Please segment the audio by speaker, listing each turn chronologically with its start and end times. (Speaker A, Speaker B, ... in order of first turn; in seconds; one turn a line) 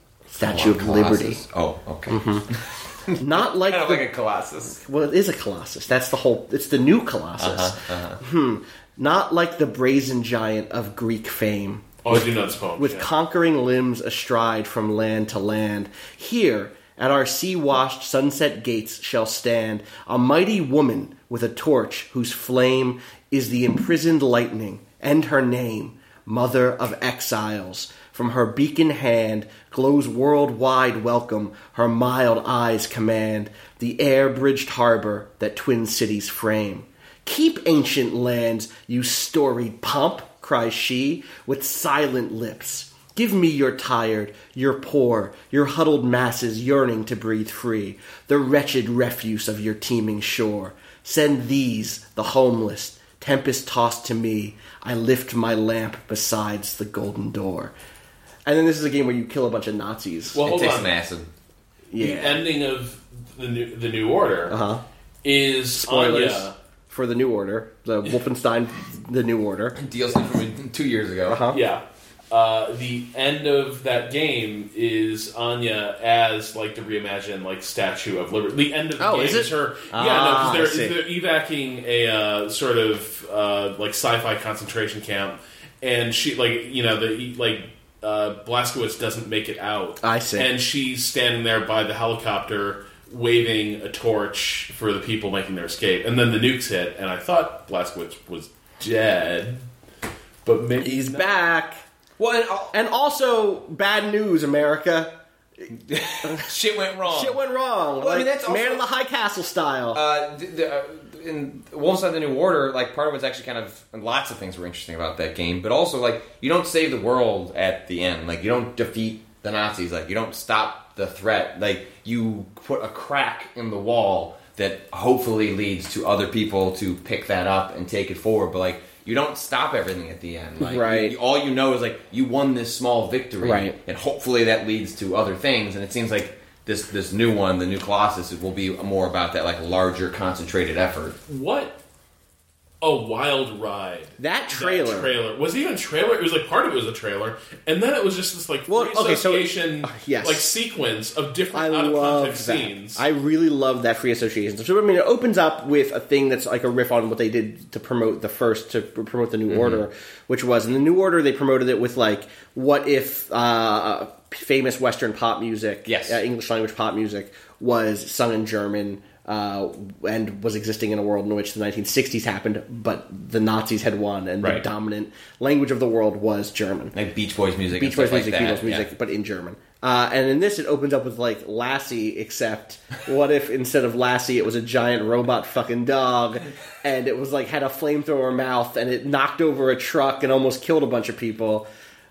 Speaker A: 0.3-4.8
Speaker B: 0.4-1.4
Speaker B: 2.1-2.5
Speaker B: 3.2-4.1
Speaker B: 4.7-57.7
Speaker A: 7.4-8.2
Speaker C: 12.0-13.1
Speaker B: 58.5-60.4
Speaker C: 60.3-60.9
Speaker A: 60.4-61.3
Speaker B: 61.9-62.4
Speaker C: 62.0-64.6
Speaker B: 64.5-64.8
Speaker C: 65.2-66.5
Speaker B: 65.8-69.8
Speaker A: 69.8-71.4
Speaker B: 71.3-71.6
Speaker C: 71.5-99.7
Speaker B: 79.0-81.0
Speaker B: 90.0-90.5
Speaker C: 100.4-101.3
Speaker B: 100.8-101.8
Speaker A: 102.2-102.7
Speaker B: 102.7-105.1
Speaker A: 105.8-107.4
Speaker B: 106.2-106.5
Speaker B: 107.1-110.0
Speaker A: 108.0-108.8
Speaker A: 109.9-141.2
Speaker B: 130.6-131.2
Speaker B: 133.4-133.8
Speaker C: 141.3-141.8
Speaker C: 142.8-153.0
Speaker B: 144.2-145.1
Speaker B: 148.7-150.5
Speaker B: 151.5-176.9
Speaker A: 159.5-159.8
Speaker A: 165.8-166.2
Speaker A: 176.9-178.9
Speaker B: 177.7-191.7